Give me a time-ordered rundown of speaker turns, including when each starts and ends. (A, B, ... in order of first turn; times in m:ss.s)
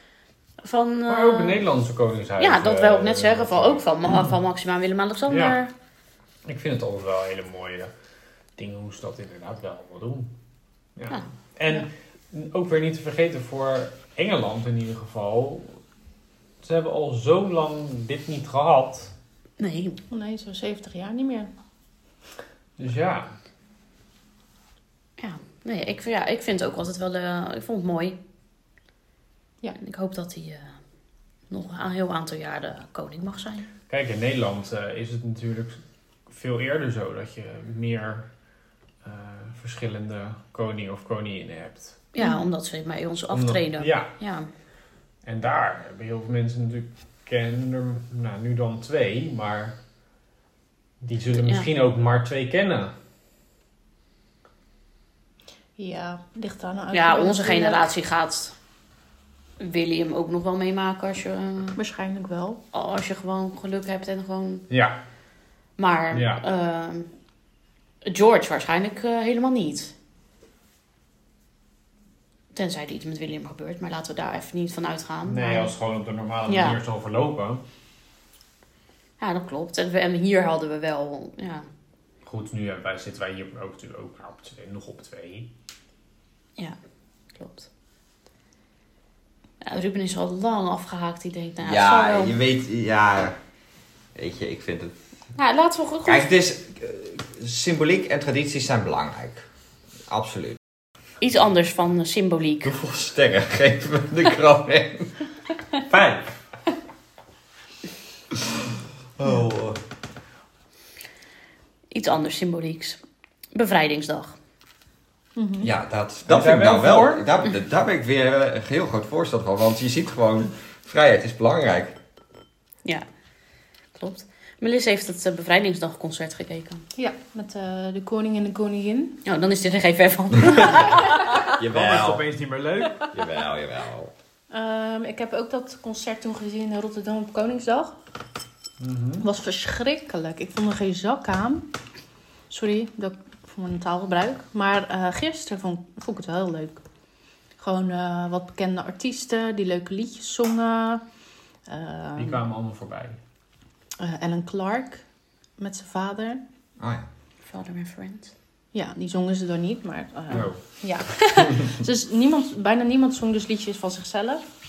0:00.6-0:01.6 A
0:01.1-0:03.8 B
0:02.4-0:05.7 A
0:05.3-0:05.6 B
0:06.4-0:07.9 B
0:08.6-0:10.3 B
0:11.0-0:15.8 B
0:16.6-0:19.1 B
0:19.6-0:20.0 A
0:20.1-0:21.5 C
0:22.8-0:23.3 B
0:25.2-0:28.2 A
0:29.8-0:30.8 A
0:31.5-0:33.7 A
0:33.9-0:38.3 B
0:39.0-0:42.0 B
0:42.1-0:44.5 A
0:43.3-0:44.1 B
0:45.2-0:49.8 B
0:51.0-0:52.9 B
0:51.4-0:51.7 A
0:55.8-0:57.9 C
0:56.9-0:58.6 A
0:59.6-1:01.8 A
1:01.8-1:02.6 C
1:02.7-1:04.7 A
1:04.7-1:05.0 B
1:05.8-1:07.1 A
1:06.1-1:06.4 B
1:08.0-1:09.9 A
1:12.5-1:15.7 A
1:15.2-1:17.6 B
1:16.5-1:16.8 A
1:19.2-1:21.7 A
1:22.2-1:25.5 B
1:27.4-1:27.7 A
1:29.6-1:32.4 A
1:31.6-1:33.4 D
1:34.2-1:34.9 D
1:35.4-1:36.3 A
1:36.1-1:39.5 D
1:40.1-1:40.6 D
1:41.2-1:42.7 A
1:42.6-1:45.2 D
1:45.9-1:46.3 B
1:48.3-1:49.8 D
1:51.9-1:53.0 A
1:53.5-1:54.4 A
1:55.4-1:55.7 C
1:55.6-2:02.0 D
1:56.3-1:57.3 B
2:03.9-2:06.8 A
2:07.0-2:09.2 C
2:09.2-2:11.4 A
2:11.4-2:12.3 D
2:11.6-2:13.2 B
2:13.1-2:14.1 D
2:14.5-2:17.9 C
2:18.8-2:19.2 B
2:19.2-2:21.7 C
2:22.5-2:26.8 C
2:27.6-2:31.0 C
2:31.7-2:32.4 C
2:32.2-2:33.2 B
2:34.0-2:35.0 C
2:35.6-2:36.4 C
2:36.8-2:37.1 D
2:37.5-2:38.3 A
2:38.7-2:44.4 C
2:40.3-2:40.6 B